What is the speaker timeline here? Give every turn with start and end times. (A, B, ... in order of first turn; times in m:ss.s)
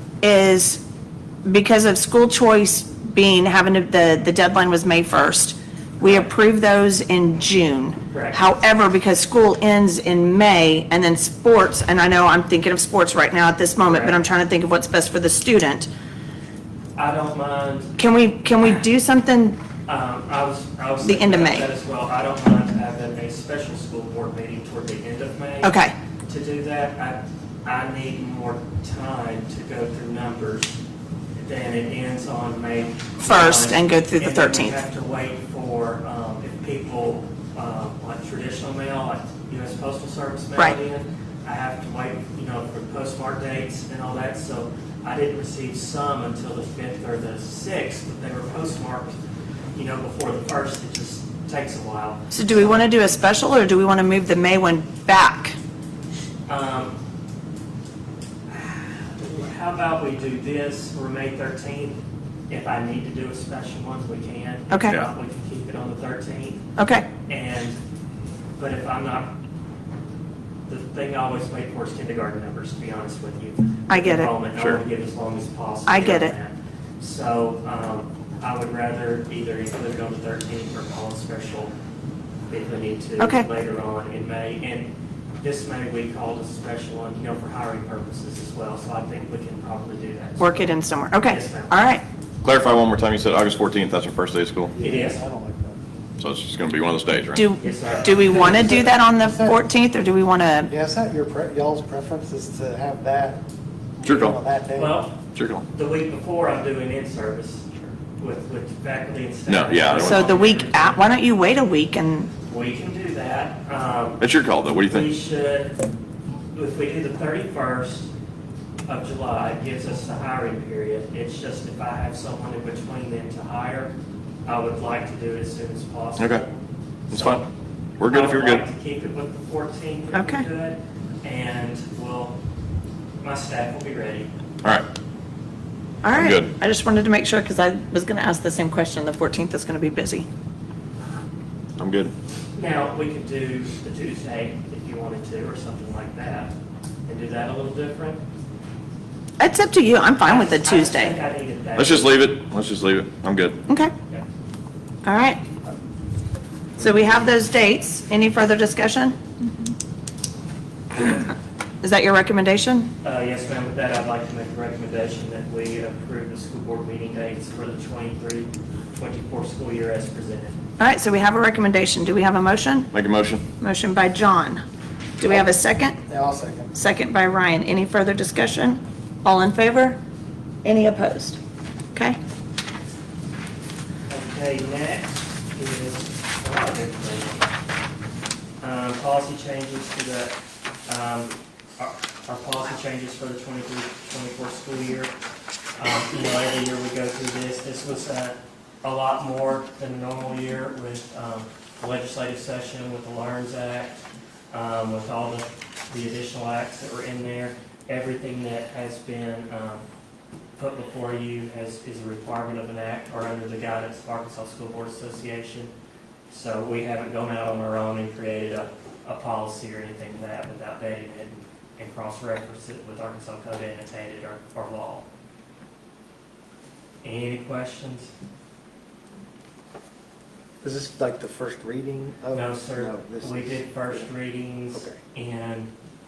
0:00.2-0:00.8 A
0:01.4-0:15.9 A
0:06.0-0:06.3 B
0:08.1-0:08.4 B
0:13.8-0:14.2 B
0:17.0-0:18.0 B
0:18.0-0:19.6 A
0:19.9-0:30.8 B
0:21.0-0:21.7 A
0:25.6-0:26.0 A
0:31.4-0:49.2 B
0:33.2-0:34.8 A
0:49.7-0:52.9 B
0:52.3-0:55.6 A
0:56.5-0:57.0 B
0:58.5-1:06.7 B
1:04.7-1:05.0 A
1:06.8-1:07.1 A
1:07.3-1:07.8 B
1:08.6-1:09.3 B
1:10.7-1:21.7 B
1:13.9-1:14.3 A
1:15.9-1:16.3 A
1:22.5-1:31.8 B
1:23.2-1:23.5 A
1:30.4-1:32.0 A
1:32.4-1:34.7 C
1:34.7-1:35.8 D
1:34.8-1:35.2 B
1:36.2-1:37.4 C
1:37.3-1:40.7 A
1:37.6-1:38.8 B
1:38.3-1:39.6 D
1:40.7-1:43.4 D
1:44.0-1:45.0 D
1:44.0-1:44.4 C
1:44.8-1:45.1 B
1:45.3-1:45.6 C
1:45.7-1:47.6 B
1:48.2-1:51.1 B
1:49.5-1:50.3 C
1:50.0-1:52.3 A
1:52.4-1:54.2 B
1:54.2-1:55.1 C
1:54.8-1:55.8 B
1:56.5-1:58.1 B
1:58.9-2:03.9 B
2:04.4-2:07.5 B
2:06.2-2:06.4 C
2:07.1-2:07.4 C
2:08.0-2:08.6 C
2:08.0-2:12.4 B
2:10.1-2:10.4 A
2:13.2-2:14.3 B
2:16.0-2:20.3 A
2:16.1-2:16.5 C
2:21.8-2:22.1 C
2:22.6-2:26.5 B
2:27.1-2:28.2 B
2:29.4-2:31.2 A
2:30.2-2:32.3 B
2:31.8-2:33.6 C
2:35.0-2:35.4 A
2:36.8-2:39.2 A
2:41.0-2:41.3 A
2:41.8-2:42.9 A
2:43.0-2:50.6 B
2:50.8-2:52.9 A
2:52.9-2:53.4 C
2:53.6-2:54.6 A
2:55.2-2:56.0 A
2:55.2-2:55.5 D
2:56.1-2:56.7 D
2:56.7-3:00.0 A
3:00.6-3:01.4 A
3:01.9-3:02.2 A
3:04.1-3:07.5 B
3:08.6-3:10.4 B
3:10.9-3:15.1 B
3:15.8-3:24.0 B
3:24.5-3:29.8 B
3:30.6-3:35.7 B
3:36.3-3:45.1 B
3:47.0-3:48.1 B
3:50.6-3:54.1 D
3:52.3-3:55.7 B
3:54.7-3:55.0 D